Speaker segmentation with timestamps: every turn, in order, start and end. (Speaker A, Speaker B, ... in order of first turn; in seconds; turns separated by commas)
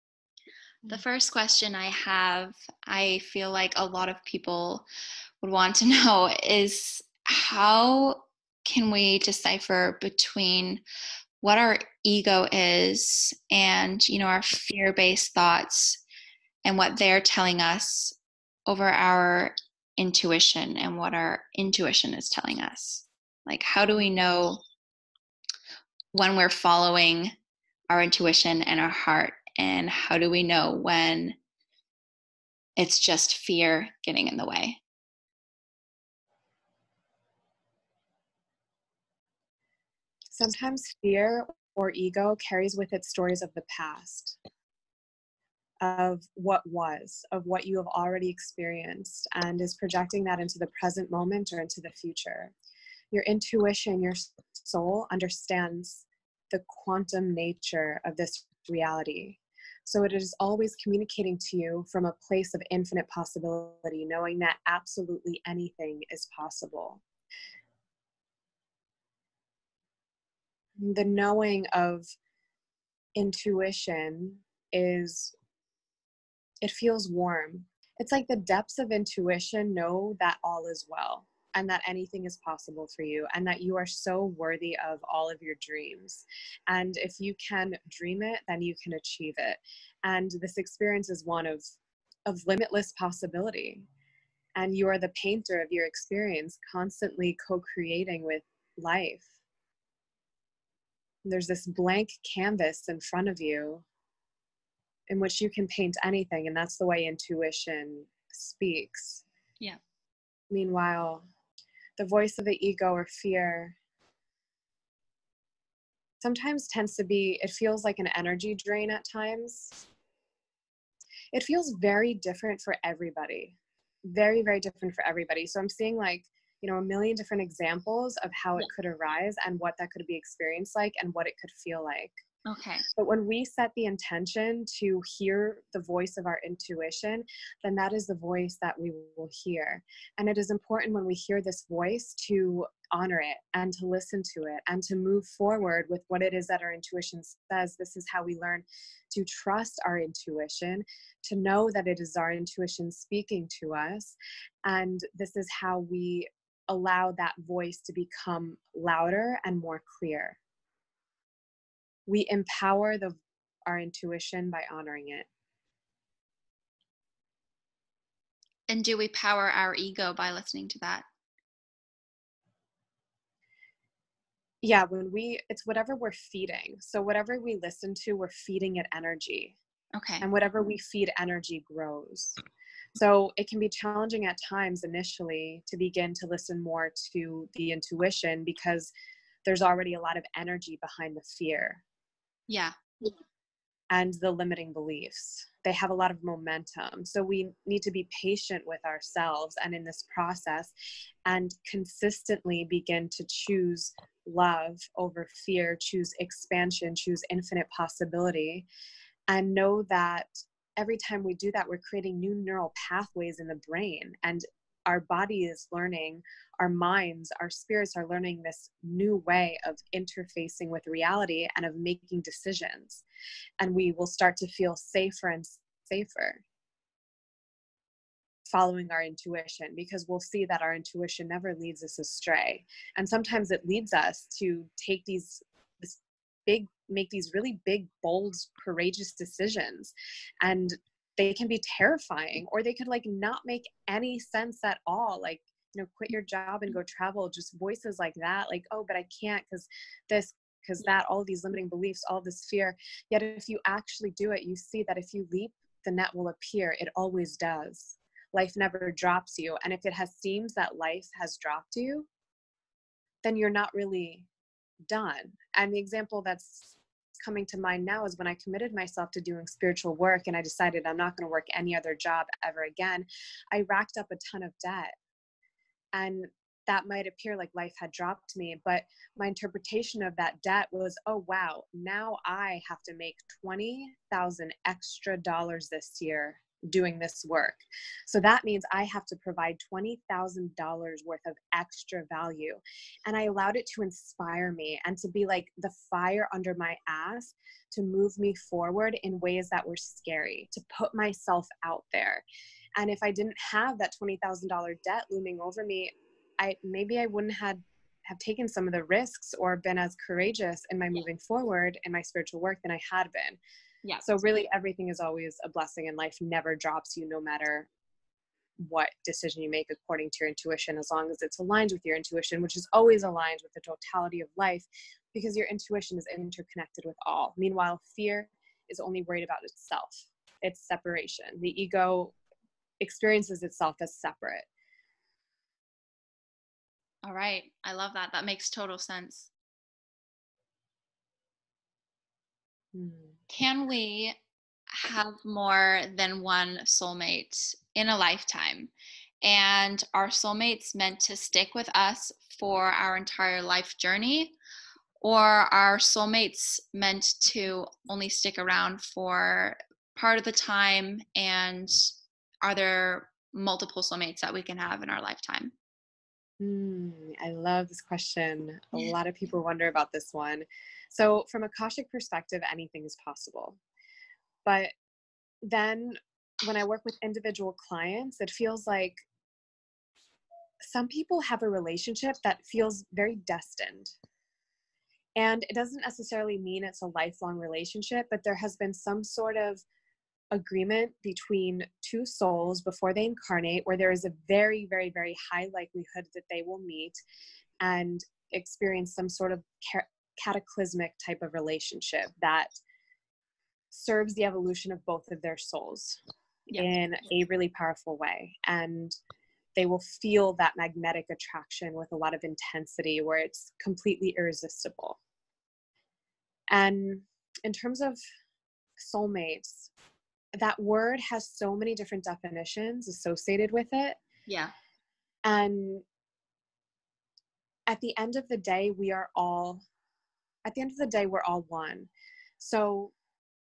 Speaker A: 0.8-4.8, Speaker A: 5.4-10.8, Speaker A: 11.4-16.0, Speaker A: 16.6-18.1, Speaker A: 18.7-24.6, Speaker A: 26.1-27.3, Speaker A: 27.9-31.4, Speaker A: 32.8-34.8, Speaker B: 40.3-44.4, Speaker B: 45.8-52.5, Speaker B: 53.1-67.0, Speaker B: 70.8-72.1, Speaker B: 73.2-75.3, Speaker B: 76.6-91.7, Speaker B: 92.2-93.9, Speaker B: 94.5-99.3, Speaker B: 101.2-103.8, Speaker B: 105.1-109.2, Speaker B: 110.5-111.2, Speaker B: 112.0-113.8, Speaker B: 116.2-119.8, Speaker B: 121.3-132.1, Speaker A: 132.4-132.8, Speaker B: 132.9-160.4, Speaker B: 162.1-165.3, Speaker A: 168.7-171.1, Speaker B: 174.6-179.6, Speaker A: 179.9-180.3, Speaker B: 180.2-182.4, Speaker B: 182.9-188.9, Speaker B: 189.4-191.8, Speaker A: 192.5-192.7, Speaker B: 193.9-200.7, Speaker B: 201.2-208.7, Speaker B: 209.3-223.0, Speaker B: 223.6-226.4, Speaker B: 228.5-262.1, Speaker B: 263.2-264.3, Speaker B: 264.9-274.9, Speaker B: 275.9-302.2, Speaker B: 302.8-313.4, Speaker A: 313.8-314.1, Speaker B: 314.0-317.7, Speaker B: 318.6-332.1, Speaker B: 332.8-334.5, Speaker A: 337.0-339.3, Speaker B: 342.7-343.1, Speaker A: 343.3-344.2, Speaker A: 344.7-348.7, Speaker A: 349.2-354.3, Speaker A: 355.0-361.9, Speaker A: 362.4-365.5, Speaker B: 366.4-373.6, Speaker B: 374.4-374.7, Speaker B: 375.4-379.0, Speaker B: 380.6-383.9, Speaker B: 385.2-389.6, Speaker B: 390.3-397.0, Speaker B: 397.6-402.5, Speaker B: 403.7-406.0, Speaker B: 406.5-408.9, Speaker B: 409.6-415.0, Speaker B: 416.5-418.0, Speaker B: 418.8-419.7, Speaker B: 420.4-424.0, Speaker A: 424.3-424.5, Speaker B: 425.2-425.8, Speaker B: 427.7-429.6, Speaker B: 430.4-432.9